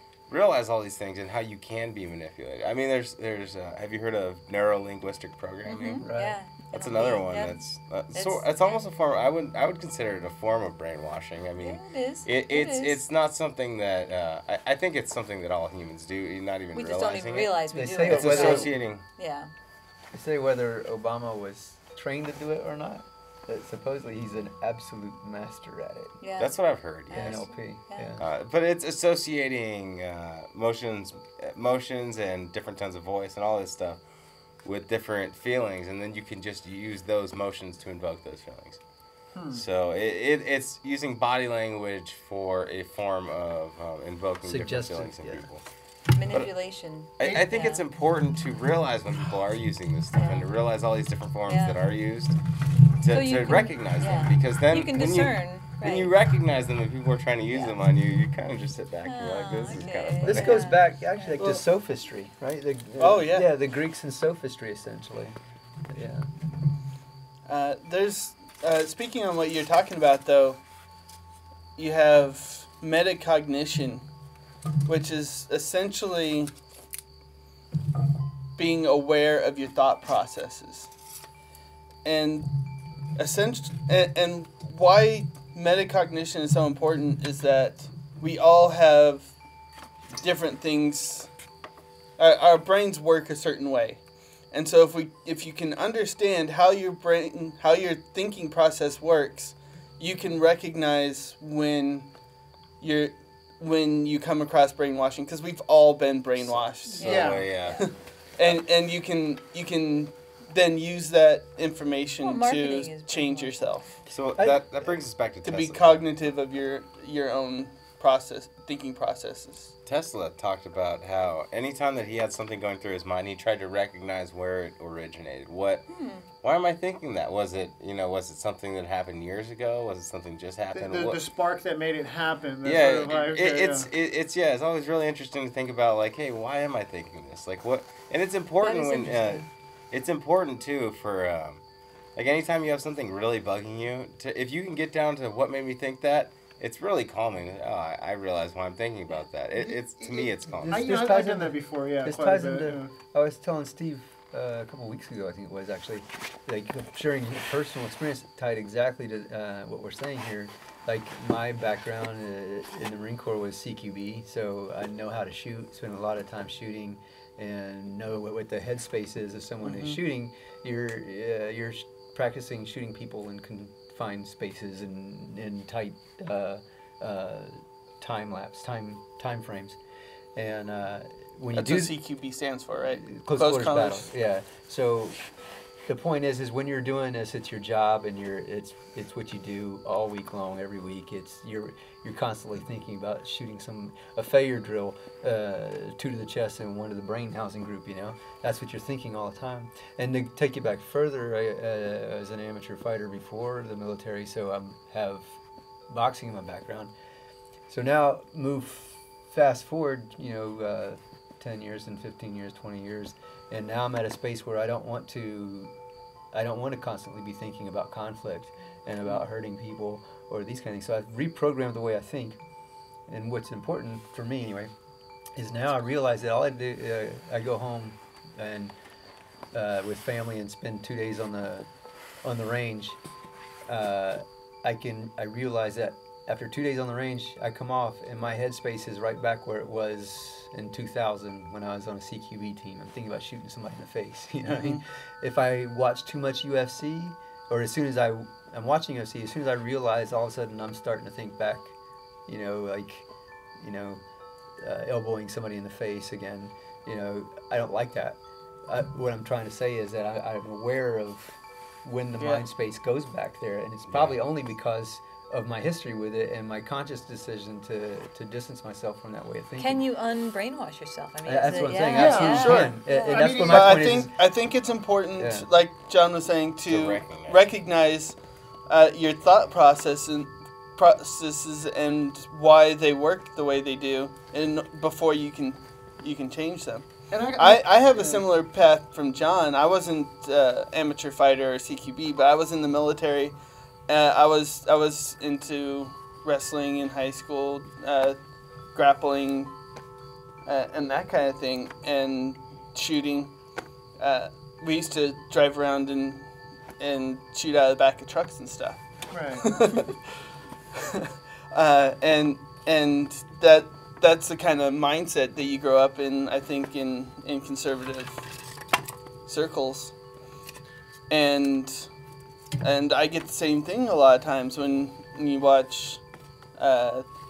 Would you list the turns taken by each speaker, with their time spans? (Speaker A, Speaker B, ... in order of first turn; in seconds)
Speaker A: 0.3-6.1, 6.6-19.0, 26.4-27.5, 28.2-34.0, 34.6-38.8, 39.5-45.6, 47.2-52.4, 53.0-60.8, 106.5-107.9, 114.1-116.0, 119.9-125.8, 126.4-131.2, 132.6-141.6, 142.2-150.9, 263.9-264.2, 276.7-277.4
Speaker B: 5.7-7.6, 8.1-8.8, 11.6-13.0, 16.7-19.5, 26.2-26.6, 27.1-28.2, 46.1-47.8, 50.1-50.5, 51.5-51.8, 53.1-56.1, 57.5-57.8, 59.0-61.4, 107.0-107.9, 112.2-113.7, 125.9-126.3, 138.6-139.5, 269.6-273.2
Speaker C: 6.0-6.4, 17.7-18.8, 20.1-26.2, 27.1-28.2, 44.4-45.5, 60.2-65.4, 65.9-66.3, 114.4-115.0, 150.5-179.8, 180.3-181.9, 182.9-185.2, 185.9-206.9, 207.7-215.7, 216.3-222.4, 223.1-224.7, 225.4-228.7, 229.5-231.7, 232.2-233.0, 233.7-251.7, 252.3-253.1, 253.6-254.0, 254.6-269.9, 271.2-274.1, 275.2-275.5
Speaker D: 39.3-39.6, 107.0-107.5, 130.7-133.9, 149.6-152.9, 271.9-274.0, 287.1-288.2, 309.1-309.5
Speaker E: 61.4-61.6, 63.0-63.5, 67.5-70.6, 71.8-74.0, 74.8-76.5, 78.6-80.9, 82.0-82.5, 83.2-89.3, 90.2-91.3, 92.2-102.1, 102.8-113.9, 115.5-119.7, 169.6-170.0, 181.6-184.1, 244.5-244.8, 262.2-262.5, 272.1-293.3, 293.9-298.2, 298.7-299.5, 300.4-303.3, 304.0-306.2, 306.8-308.8, 309.4-310.0, 310.7-318.2, 319.3-319.9, 321.1-321.9, 322.6-326.0, 326.6-327.1